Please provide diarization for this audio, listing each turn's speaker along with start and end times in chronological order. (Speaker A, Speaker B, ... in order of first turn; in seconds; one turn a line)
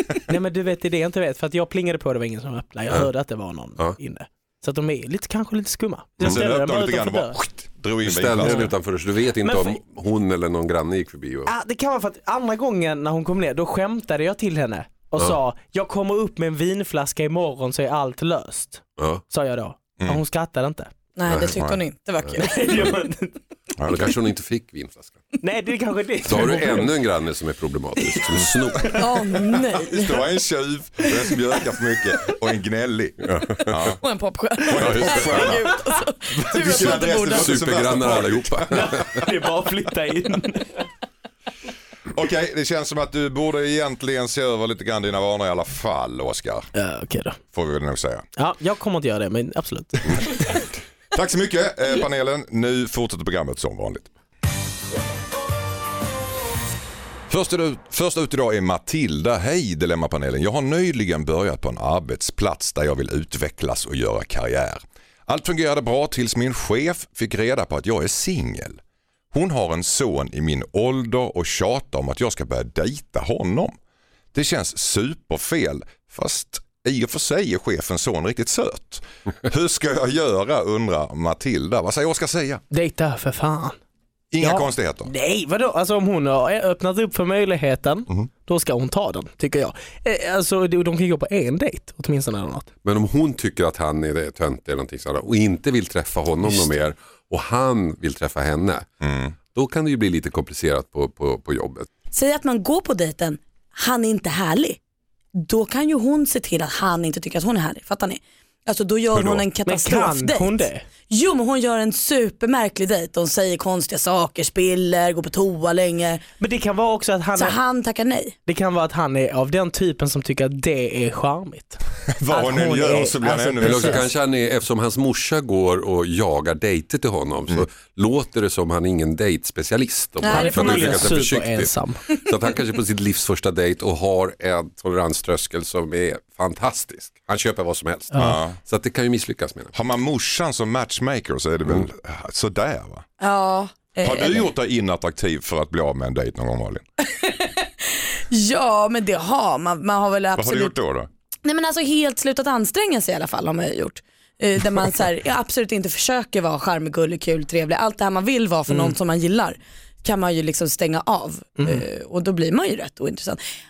Speaker A: 0.3-7.4
Speaker B: 6.2-8.7
Speaker C: 8.0-11.5
Speaker A: 8.4-8.7
Speaker A: 9.4-9.8
Speaker A: 11.5-20.9
Speaker C: 19.0-19.2
Speaker D: 21.2-22.7
Speaker C: 21.3-21.6
Speaker B: 21.4-21.8
Speaker A: 22.4-23.4
Speaker B: 23.8-24.2
Speaker C: 23.9-25.2
Speaker A: 25.4-26.9
Speaker C: 26.2-29.0
Speaker D: 28.9-30.3
Speaker B: 29.8-34.0
Speaker C: 33.2-33.9
Speaker D: 34.0-37.8
Speaker B: 34.7-35.8
Speaker C: 34.8-35.5
Speaker B: 36.4-38.9
Speaker C: 36.7-39.2
Speaker A: 38.7-40.8
Speaker B: 42.1-46.7
Speaker A: 46.8-47.4
Speaker B: 47.5-48.2
Speaker A: 48.4-50.6
Speaker B: 50.1-54.1
Speaker B: 57.3-68.8
Speaker B: 69.3-73.8
Speaker B: 74.3-82.6
Speaker A: 82.7-83.8
Speaker B: 84.3-85.1
Speaker A: 84.4-92.7
Speaker C: 92.8-98.9
Speaker B: 99.0-99.4
Speaker C: 99.5-101.9
Speaker D: 102.1-104.8
Speaker D: 105.3-116.2
Speaker B: 109.1-109.5
Speaker A: 109.7-110.8
Speaker A: 116.4-117.6
Speaker D: 117.4-118.3
Speaker A: 118.5-124.0
Speaker B: 122.1-124.1
Speaker C: 123.6-139.7
Speaker D: 130.2-131.1
Speaker A: 130.3-132.0
Speaker A: 138.1-138.4
Speaker B: 138.2-138.6
Speaker B: 139.7-143.1
Speaker D: 143.2-144.5
Speaker B: 144.0-146.8
Speaker D: 147.1-150.7
Speaker B: 150.3-151.1
Speaker D: 151.4-163.4
Speaker A: 158.7-158.9
Speaker A: 161.6-161.8